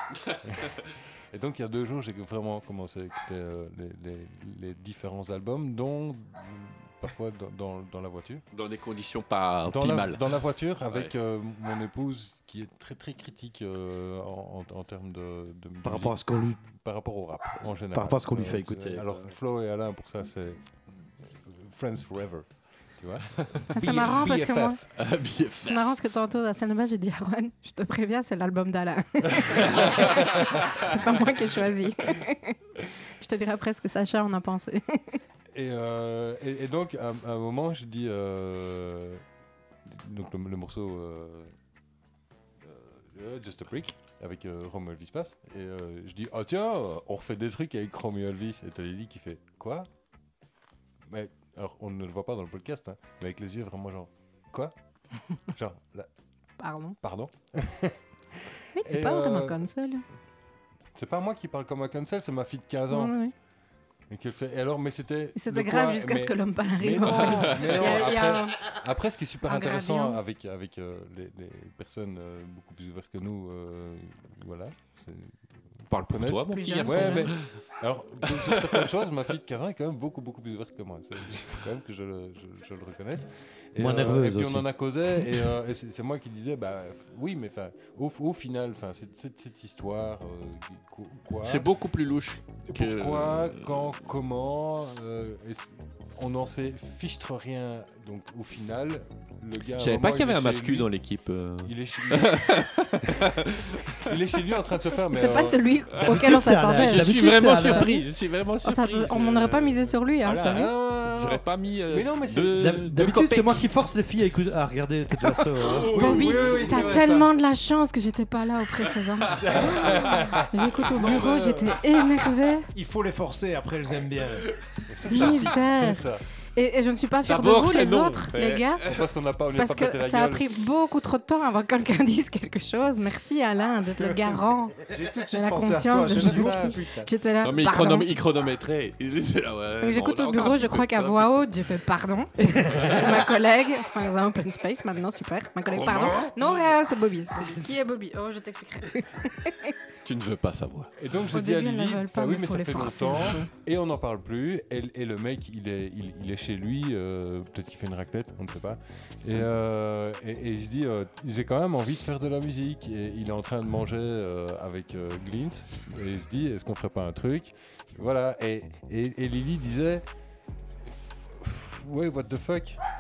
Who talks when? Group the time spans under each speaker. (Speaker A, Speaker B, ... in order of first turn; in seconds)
Speaker A: 0.4-8.4, 9.7-24.8, 35.5-39.2, 39.9-41.5, 42.6-49.9, 51.1-54.7, 55.5-56.1, 57.0-59.6, 60.9-63.2, 64.1-91.7, 92.7-100.9, 101.6-103.3, 104.0-105.6, 110.4-112.8, 119.3-120.5, 124.9-126.2, 128.8-130.4, 136.0-136.8, 151.0-170.1, 170.8-172.8
Speaker B: 8.5-10.2, 25.0-25.9, 67.0-67.9, 75.9-77.5, 78.3-78.9, 91.4-93.9, 99.8-104.2, 106.8-113.7, 115.2-117.0, 119.3-120.2, 125.1-125.5, 127.3-128.9, 137.4-141.5, 142.8-143.2, 145.7-146.6, 150.0-150.9
Speaker C: 15.8-16.6, 17.9-19.3, 83.8-84.7, 106.0-107.9, 112.5-116.2, 142.5-142.9
Speaker D: 23.7-24.8, 25.6-32.6, 33.1-35.2, 56.6-57.0, 58.8-60.0, 62.9-63.3, 65.3-68.7, 69.5-70.2, 76.5-77.3, 105.1-108.1, 108.6-110.7, 115.9-122.7, 125.0-128.9, 129.6-138.1, 139.8-149.8, 151.3-153.5
Speaker E: 116.0-117.3, 120.8-121.9, 122.7-124.5, 134.9-137.1